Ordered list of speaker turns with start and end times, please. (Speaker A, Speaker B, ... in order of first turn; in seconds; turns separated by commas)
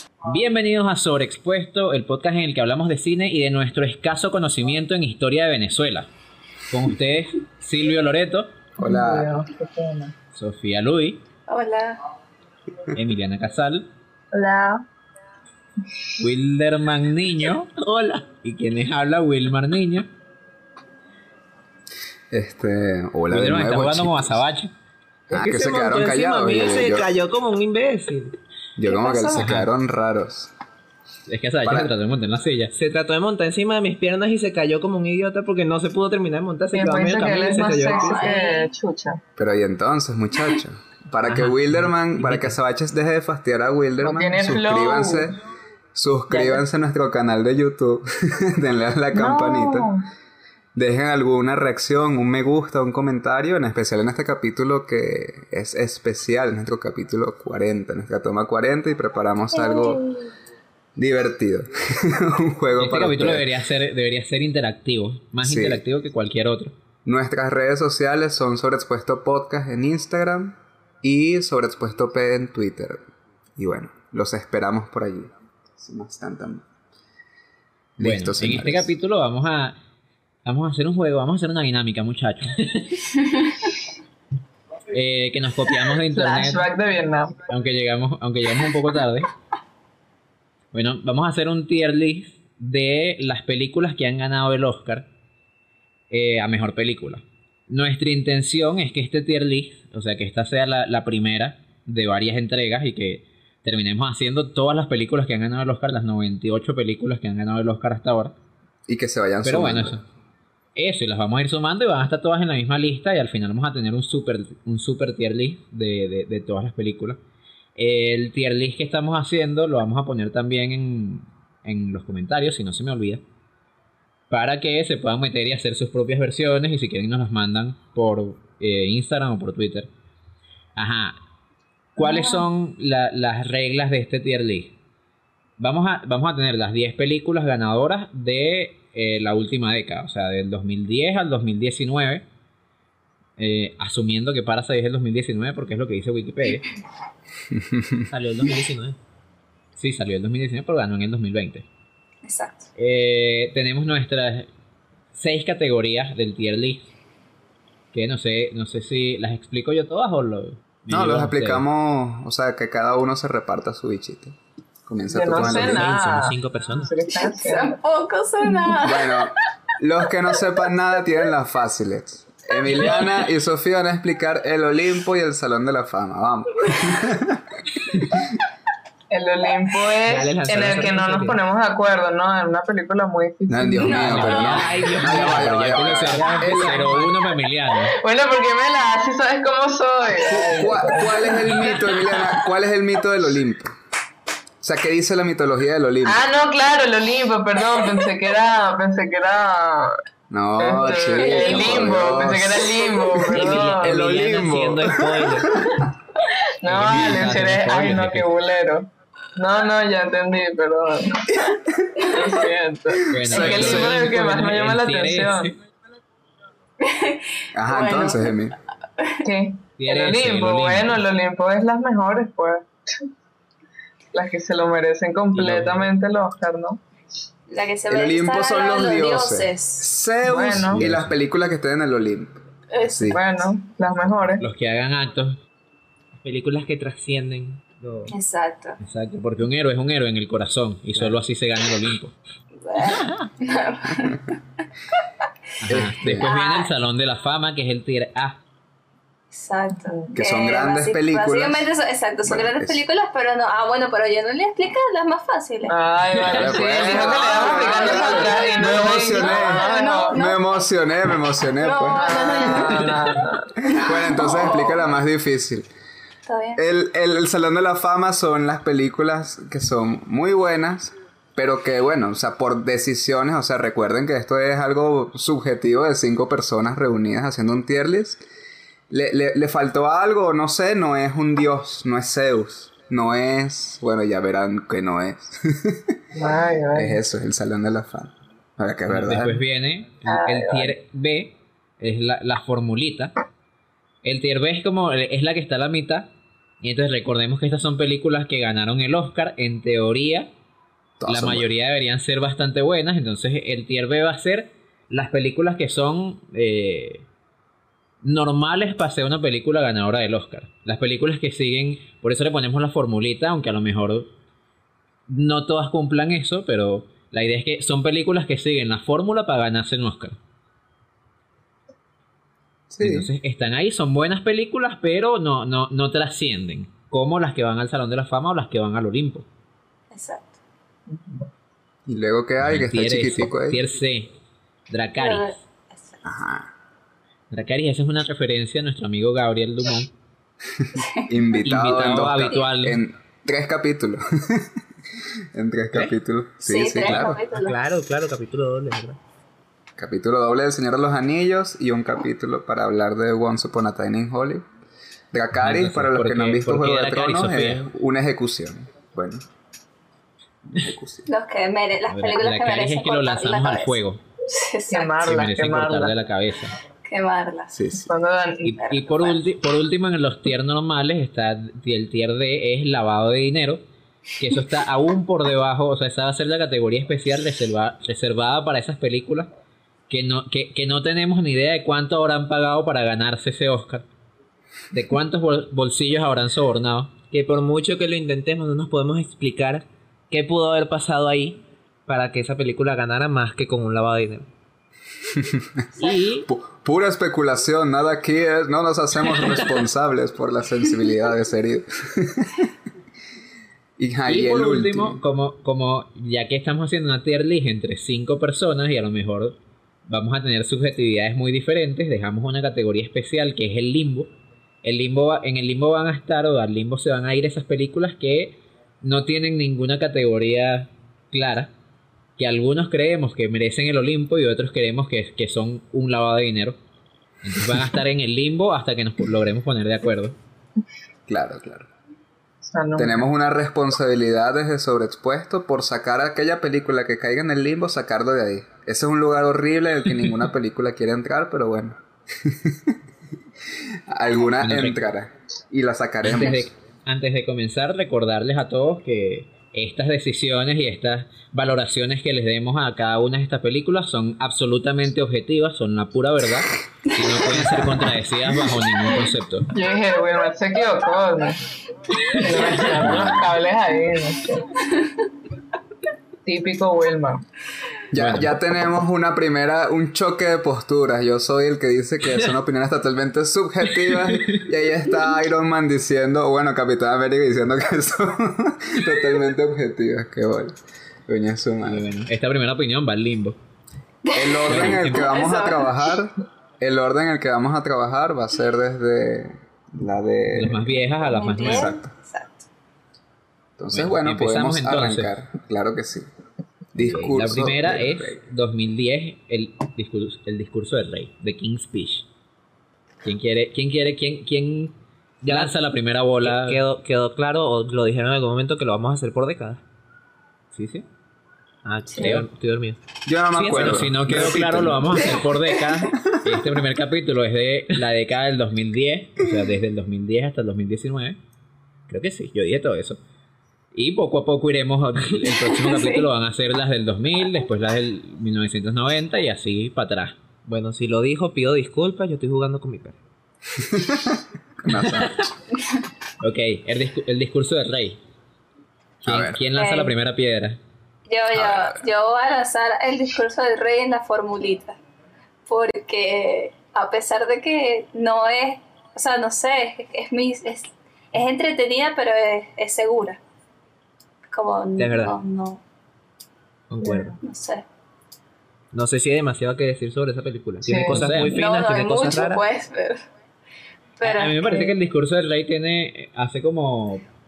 Speaker A: 0.2-6.1, Speaker A: 6.7-8.6, Speaker B: 8.8-9.3, Speaker C: 8.8-10.2, Speaker A: 10.3-11.2, Speaker D: 11.5-12.0, Speaker A: 12.9-13.9, Speaker C: 14.3-14.8, Speaker A: 16.2-17.7, Speaker E: 17.8-18.2, Speaker A: 18.4-20.1, Speaker B: 22.3-24.4, Speaker A: 23.3-24.7, Speaker B: 25.3-27.2, Speaker E: 25.3-28.4, Speaker B: 28.8-30.5, Speaker D: 28.9-29.5, Speaker A: 29.4-29.7, Speaker A: 31.3-32.7, Speaker B: 31.6-31.9, Speaker E: 32.7-38.3, Speaker C: 36.7-39.2, Speaker D: 37.8-38.7, Speaker B: 39.4-45.4, Speaker E: 41.3-41.6, Speaker E: 42.2-42.5, Speaker C: 44.0-45.3, Speaker B: 45.9-49.9, Speaker C: 46.3-46.6, Speaker C: 49.1-50.0, Speaker B: 50.8-60.0, Speaker D: 59.6-60.2, Speaker B: 61.0-63.5, Speaker A: 62.8-66.7, Speaker B: 65.4-65.8, Speaker B: 67.0-73.0, Speaker B: 73.6-76.7, Speaker B: 78.0-78.9, Speaker A: 78.0-79.8, Speaker A: 80.5-83.2, Speaker A: 84.9-86.7, Speaker C: 86.1-87.4, Speaker A: 87.5-89.3, Speaker A: 90.7-95.1, Speaker A: 96.1-108.3, Speaker B: 108.9-110.0, Speaker A: 109.4-110.0, Speaker A: 110.8-117.2, Speaker A: 117.8-123.2, Speaker A: 124.3-129.9, Speaker A: 130.8-131.2, Speaker A: 132.0-134.8, Speaker D: 132.0-132.4, Speaker A: 135.6-142.2, Speaker A: 143.4-146.7, Speaker B: 147.5-148.0, Speaker E: 148.1-149.0, Speaker A: 149.8-151.7, Speaker D: 152.2-152.7, Speaker A: 152.8-154.5, Speaker A: 155.1-156.9, Speaker A: 157.9-161.6, Speaker B: 160.9-165.9, Speaker C: 165.1-167.8, Speaker E: 165.3-166.9, Speaker D: 167.1-169.2, Speaker C: 168.5-168.8, Speaker B: 168.8-178.3, Speaker C: 179.1-184.4, Speaker E: 180.1-181.4, Speaker B: 183.5-186.8, Speaker D: 183.8-184.6, Speaker A: 183.9-188.0, Speaker E: 184.1-187.1, Speaker C: 187.8-192.2, Speaker B: 190.2-193.8, Speaker B: 194.6-196.2, Speaker C: 196.1-200.0, Speaker B: 200.3-205.8, Speaker C: 200.6-204.1, Speaker D: 201.3-201.6, Speaker E: 203.3-205.6, Speaker C: 206.6-215.5, Speaker A: 206.7-208.4, Speaker A: 213.1-215.5, Speaker B: 213.1-214.1, Speaker D: 216.8-218.4, Speaker B: 217.5-218.6, Speaker D: 219.0-219.3, Speaker C: 219.2-222.7, Speaker A: 219.8-221.0, Speaker C: 224.1-226.8, Speaker A: 225.3-225.9, Speaker D: 227.5-229.9, Speaker B: 227.9-233.2, Speaker C: 230.2-230.8, Speaker A: 230.7-231.1, Speaker D: 232.7-233.2, Speaker C: 233.1-234.4, Speaker A: 234.4-235.4, Speaker E: 236.2-238.1, Speaker D: 238.1-238.8, Speaker A: 238.8-242.1, Speaker D: 242.6-244.4, Speaker A: 245.6-248.4, Speaker B: 245.7-246.3, Speaker D: 246.2-246.7, Speaker D: 249.3-255.8, Speaker C: 249.9-250.1, Speaker B: 250.1-251.7, Speaker B: 252.2-252.8, Speaker C: 255.7-260.2, Speaker B: 256.3-262.9, Speaker D: 256.5-260.4, Speaker D: 261.6-263.1, Speaker C: 262.0-263.7, Speaker D: 263.6-264.9, Speaker B: 263.7-265.7, Speaker D: 266.3-266.6, Speaker B: 266.6-278.2, Speaker B: 278.9-286.0, Speaker C: 286.1-287.0, Speaker B: 286.7-289.4, Speaker A: 288.9-293.1, Speaker C: 290.1-290.8, Speaker A: 294.0-296.1, Speaker A: 296.6-300.3, Speaker B: 301.0-301.5, Speaker A: 301.1-307.1, Speaker A: 308.0-314.1, Speaker A: 315.1-320.2, Speaker B: 322.7-323.1, Speaker A: 322.8-329.3, Speaker D: 329.9-330.4, Speaker C: 330.9-331.3, Speaker B: 331.9-333.6, Speaker A: 332.4-334.1, Speaker A: 334.7-335.4, Speaker D: 335.0-336.0, Speaker B: 336.0-336.5, Speaker A: 337.3-339.9, Speaker B: 340.6-344.5, Speaker D: 340.8-341.1, Speaker A: 341.4-342.8, Speaker B: 345.4-347.2, Speaker D: 346.4-347.6, Speaker E: 347.3-349.0, Speaker B: 349.8-354.4, Speaker B: 355.1-359.2, Speaker A: 355.4-357.7, Speaker B: 360.5-361.1, Speaker D: 361.1-365.0, Speaker A: 361.9-364.0, Speaker C: 364.7-365.9, Speaker A: 365.0-366.6, Speaker D: 366.9-367.5, Speaker B: 367.5-367.9, Speaker C: 367.7-368.5, Speaker A: 368.4-373.6, Speaker D: 368.4-369.2, Speaker A: 374.2-379.3, Speaker A: 379.9-383.9, Speaker A: 384.7-386.9, Speaker E: 387.1-394.3, Speaker B: 395.1-402.5, Speaker E: 395.8-396.3, Speaker B: 403.8-405.0, Speaker A: 404.1-409.4, Speaker A: 409.9-414.1, Speaker A: 414.6-421.5, Speaker A: 422.2-426.6, Speaker A: 427.2-430.1, Speaker B: 431.1-431.7, Speaker C: 432.4-433.1, Speaker B: 432.8-442.8, Speaker B: 443.9-446.5, Speaker A: 444.4-444.9, Speaker A: 446.0-459.5, Speaker B: 457.4-457.8, Speaker C: 459.5-461.4, Speaker C: 462.1-464.6, Speaker A: 462.2-463.1, Speaker B: 462.9-463.1, Speaker C: 466.2-467.2, Speaker B: 467.9-481.9, Speaker A: 467.9-468.3, Speaker A: 474.1-474.4, Speaker A: 481.7-483.4, Speaker D: 484.1-485.7, Speaker B: 484.1-490.8, Speaker A: 484.5-485.1, Speaker A: 490.3-491.7, Speaker D: 491.0-492.5, Speaker B: 491.4-491.9, Speaker B: 493.6-496.1, Speaker A: 493.7-495.1, Speaker B: 496.7-498.2, Speaker A: 496.9-502.1, Speaker A: 503.0-504.8, Speaker E: 505.2-505.5, Speaker A: 505.3-506.6, Speaker E: 506.2-509.6, Speaker A: 510.5-510.9, Speaker E: 511.6-512.8, Speaker D: 511.9-512.2, Speaker A: 512.0-512.3, Speaker B: 513.1-515.2, Speaker E: 513.4-513.8, Speaker A: 513.5-521.2, Speaker A: 521.9-523.0, Speaker A: 523.7-530.2, Speaker D: 525.3-526.1, Speaker E: 530.5-533.0, Speaker B: 533.6-535.3, Speaker A: 536.2-538.0, Speaker A: 539.0-540.6, Speaker B: 539.0-539.4, Speaker D: 539.5-540.0, Speaker D: 541.1-544.8, Speaker B: 541.3-541.8, Speaker D: 545.5-553.2, Speaker D: 554.3-555.6, Speaker E: 554.8-555.2, Speaker E: 556.7-557.2, Speaker C: 556.8-557.1, Speaker D: 557.2-557.6, Speaker E: 558.7-562.4, Speaker C: 560.6-561.0, Speaker A: 560.9-561.4, Speaker D: 561.3-563.0, Speaker D: 564.0-564.7, Speaker A: 564.0-567.0